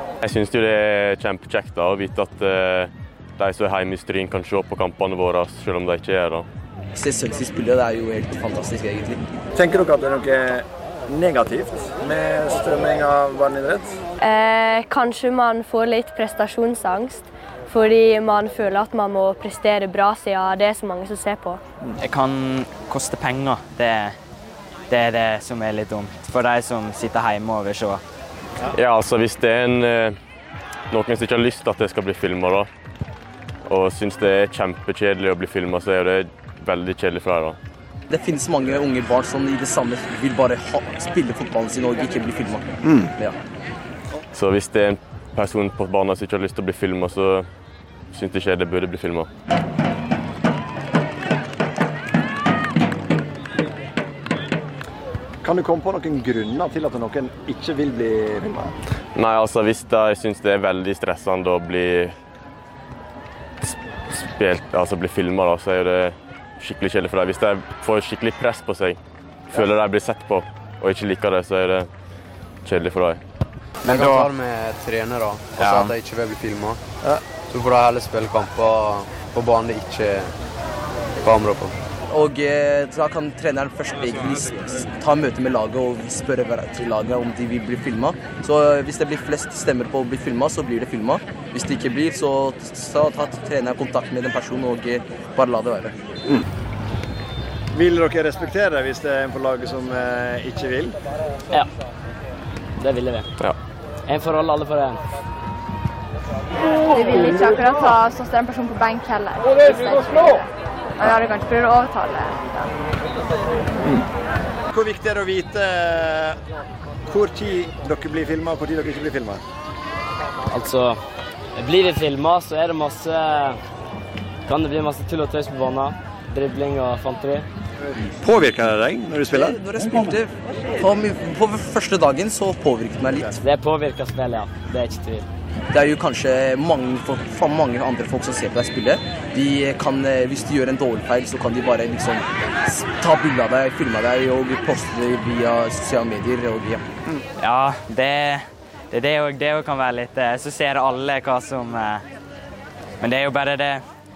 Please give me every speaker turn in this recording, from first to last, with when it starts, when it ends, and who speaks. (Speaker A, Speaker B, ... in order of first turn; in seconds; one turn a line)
Speaker A: 0.2-6.5
Speaker B: 6.9-9.2
Speaker C: 9.5-14.0
Speaker D: 14.2-21.6
Speaker E: 22.0-24.2
Speaker E: 24.9-28.0
Speaker A: 28.7-30.2
Speaker A: 30.9-32.7
Speaker A: 33.7-37.6
Speaker B: 38.1-43.4
Speaker C: 42.8-43.1
Speaker A: 44.3-47.5
Speaker A: 48.1-49.3
Speaker C: 55.4-58.9
Speaker A: 59.1-62.2
Speaker A: 63.7-69.0
Speaker A: 69.5-71.9
Speaker A: 72.7-73.2
Speaker F: 73.8-76.8
Speaker E: 73.9-74.3
Speaker E: 75.6-75.9
Speaker F: 77.5-80.3
Speaker F: 81.2-81.7
Speaker B: 82.1-96.0
Speaker C: 97.7-101.0
Speaker G: 102.8-103.3
Speaker G: 104.1-105.0
Speaker H: 106.6-112.7
Speaker C: 114.7-116.4
Speaker C: 117.1-119.4
Speaker G: 120.5-121.0
Speaker G: 121.6-123.6
Speaker G: 124.5-127.5
Speaker C: 128.2-130.1
Speaker B: 129.3-133.4
Speaker G: 133.4-135.3
Speaker B: 135.7-146.8
Speaker E: 147.4-152.0
Speaker E: 153.0-153.8